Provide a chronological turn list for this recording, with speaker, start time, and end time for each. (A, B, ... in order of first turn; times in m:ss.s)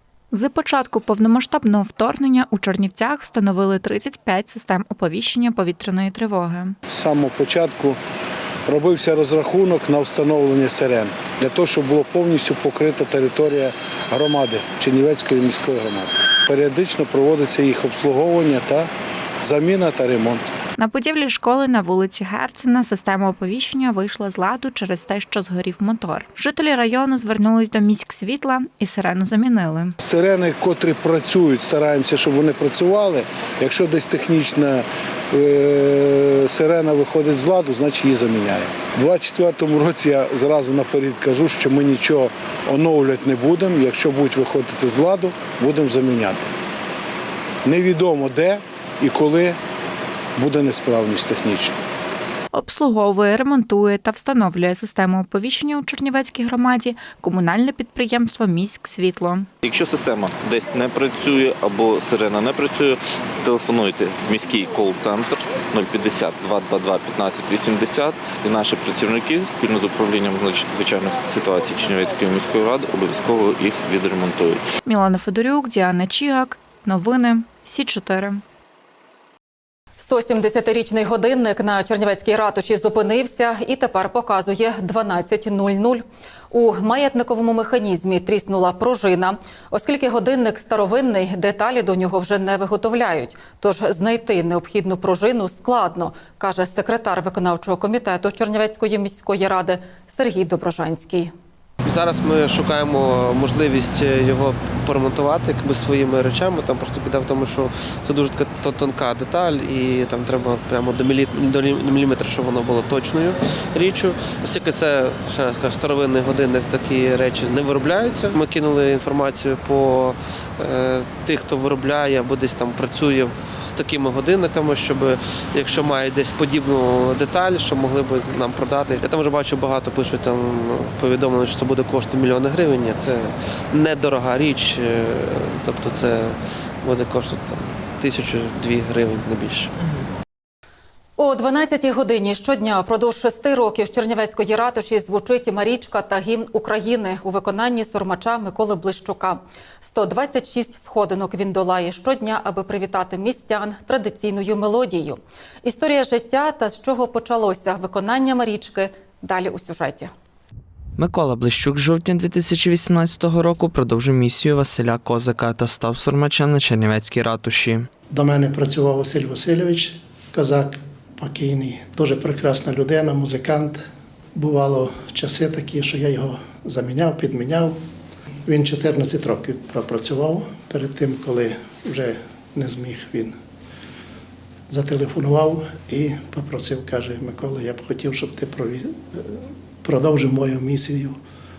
0:00.3-0:06.8 A
0:06.9-0:08.0 B
0:08.7-0:18.9 B
0:19.4-0:20.5 B
0:20.8-0:29.9 A
0:30.0-0:46.5 B
0:47.6-0:49.6 B
0:50.4-0:51.8 B
0:52.5-0:59.5 A
0:59.6-1:14.6 C
1:14.8-1:18.4 A
1:20.0-1:41.3 D
1:41.8-2:19.7 E
2:21.2-2:40.1 D
2:41.0-2:47.9 F
2:48.1-2:53.8 G
2:54.3-2:57.8 G
2:58.5-3:03.3 G
3:04.7-3:11.2 G